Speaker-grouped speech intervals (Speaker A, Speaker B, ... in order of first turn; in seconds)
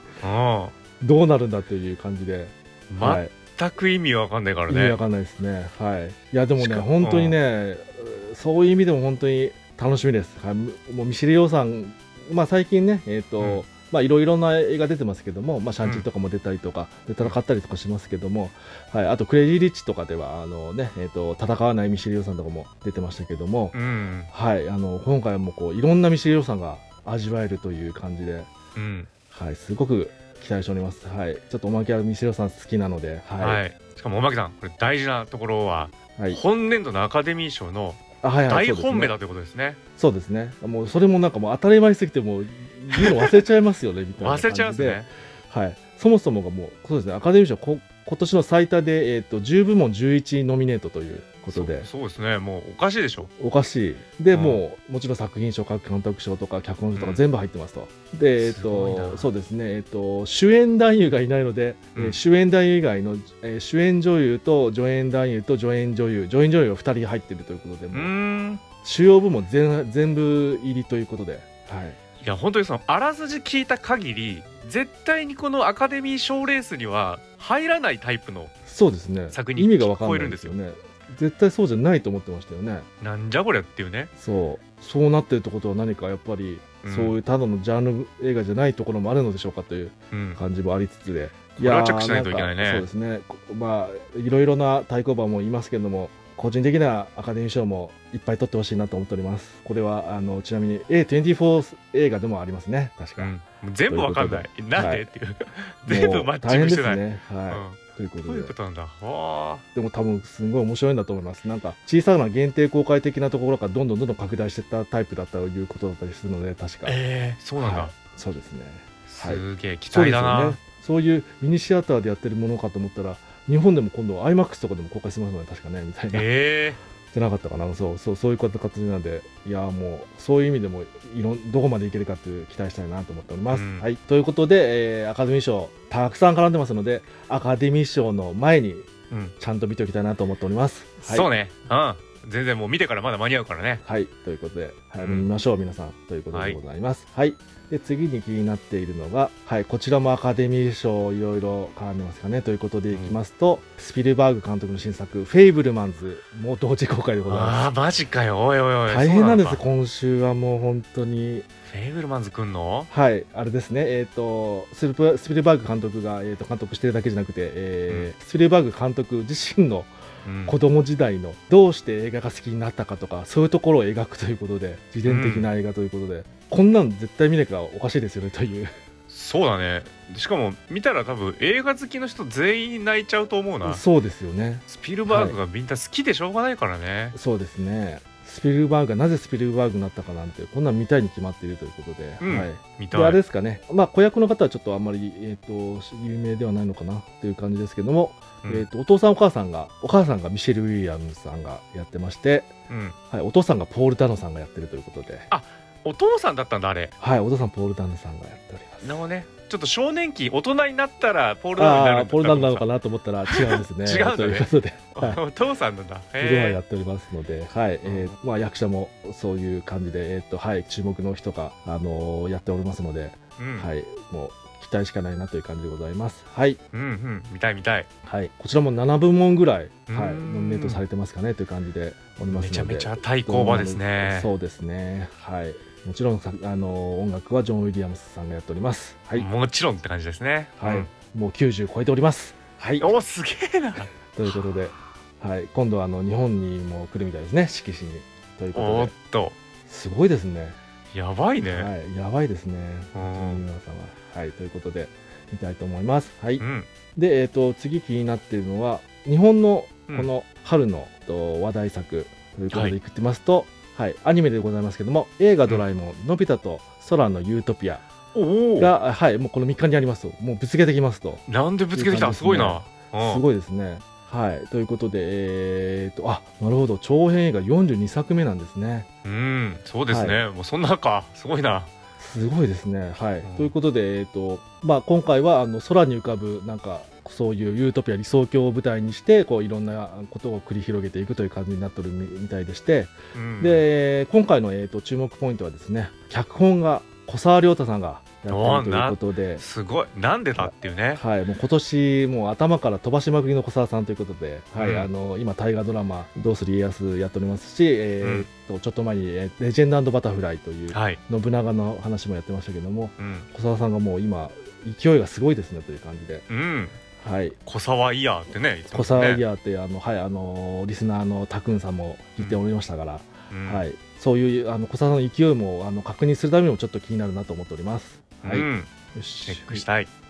Speaker A: 0.2-0.7, 2.9-5.0, 6.6-7.4, 23.7-24.3, 28.7-29.1, 33.4-39.8, 44.2-45.1, 51.5-53.3, 54.3-54.6, 56.9-57.2, 58.4-59.3, 67.9-68.6, 72.2-78.5, 79.3-80.6, 83.0-84.1, 86.8-87.2, 90.1-90.4, 91.5-92.9, 103.2-109.7, 116.8-117.9, 119.1-120.6, 126.1-126.8, 133.5-133.9, 141.0-143.8, 145.0-145.2, 146.3-146.6, 152.9-153.2, 157.3-159.6, 161.7-162.9, 170.2-170.6, 175.0-175.5, 179.1-183.8, 184.7-187.2, 192.2-193.2, 202.7-203.0, 205.3-206.9, 208.8-212.7, 213.3-216.6, 217.8-218.1, 223.4-223.7, 226.7-227.9, 229.9-230.8, 232.3-234.3, 239.1-240.9, 242.8-244.4, 248.5-249.4, 250.9-251.7, 252.9-253.4, 256.4-256.7, 268.1-268.7, 271.3-273.2, 279.0-281.7, 283.2-283.5, 293.1-293.6, 298.3-301.0, 304.6-304.9, 308.0-308.3, 310.7-311.0, 313.0-313.3, 316.3-316.8, 317.4-319.2, 323.3-323.6, 328.2-328.7, 329.2-329.9
Speaker B: 1.0-3.3, 4.7-23.8, 24.3-28.5, 29.3-33.6, 36.2-36.4, 38.2-39.1, 40.0-51.9, 53.4-68.1, 68.8-72.0, 78.7-82.8, 84.2-103.3, 103.9-105.1, 105.8-108.5, 109.7-117.0, 117.6-126.3, 127.1-138.9, 139.4-141.3, 143.8-157.7, 158.9-161.4, 162.9-169.9, 170.4-178.7, 183.6-185.4, 187.1-202.5, 203.1-205.3, 207.0-209.0, 211.5-215.2, 216.2-226.6, 228.1-239.3, 240.6-242.9, 244.1-248.9, 249.7-250.6, 251.4-256.4, 256.9-267.8, 268.6-278.9, 279.9-280.2, 282.0-299.4, 300.3-316.2, 317.0-317.4, 318.7-329.6